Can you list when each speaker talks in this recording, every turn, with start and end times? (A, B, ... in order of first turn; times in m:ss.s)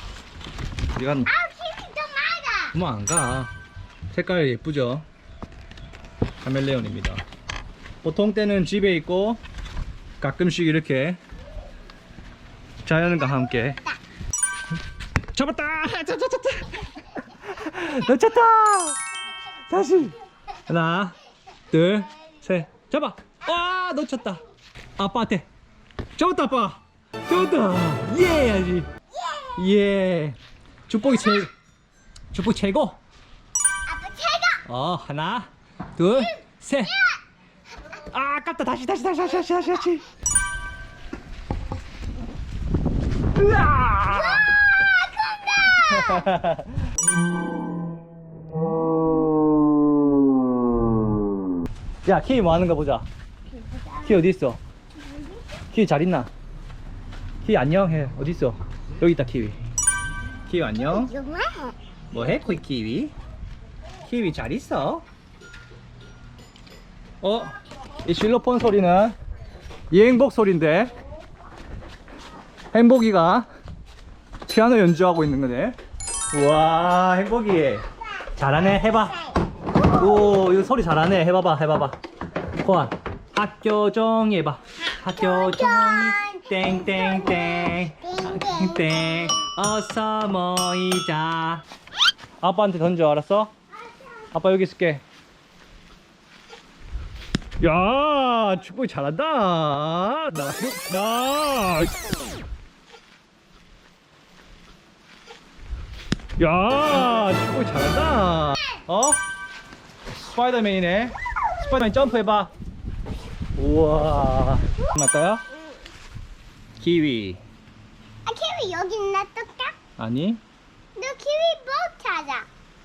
0:01.0-0:01.3 A
0:01.3-0:02.8 B
0:02.7-0:03.5 A
0:04.1-0:05.1 A
0:06.4-0:07.2 A
0:08.0-0:09.4 A
0:10.2-0:11.2 A
0:12.8-0:13.8 A
0:15.3-0:19.0 A
0:19.7-0:21.2 A
0:21.7-0:24.4 A
0:25.0-0:25.5 A
0:26.2-0:28.9 A
0:29.2-0:29.5 B
0:29.6-0:31.5 A
0:32.3-0:33.0 A
0:33.9-0:34.6 B
0:34.6-0:37.0 A
0:36.9-0:37.2 B
0:37.9-0:40.1 A
0:43.4-0:44.5 A
0:44.3-0:46.3 B
0:45.8-0:46.8 A
0:52.0-0:53.1 A
0:53.6-0:54.2 B
0:54.0-0:54.6 A
0:55.7-0:56.3 A
0:57.4-0:59.6 A
1:00.5-1:01.1 A
1:00.8-1:01.8 B
1:02.1-1:03.1 A
1:04.0-1:05.0 A
1:07.2-1:09.2 A
1:09.9-1:10.9 A
1:12.7-1:13.5 A
1:14.5-1:15.8 A
1:16.3-1:19.2 A
1:18.8-1:19.4 B
1:19.9-1:22.0 A
1:22.6-1:31.6 A
1:25.2-1:29.4 B
1:32.4-1:33.5 A
1:34.3-1:35.0 A
1:37.6-1:42.0 A
1:46.4-1:49.2 A
1:50.1-1:52.5 A
1:53.6-1:55.4 A
1:56.8-1:57.4 A
1:58.2-1:59.8 B
2:00.0-2:00.4 A
2:01.0-2:02.5 B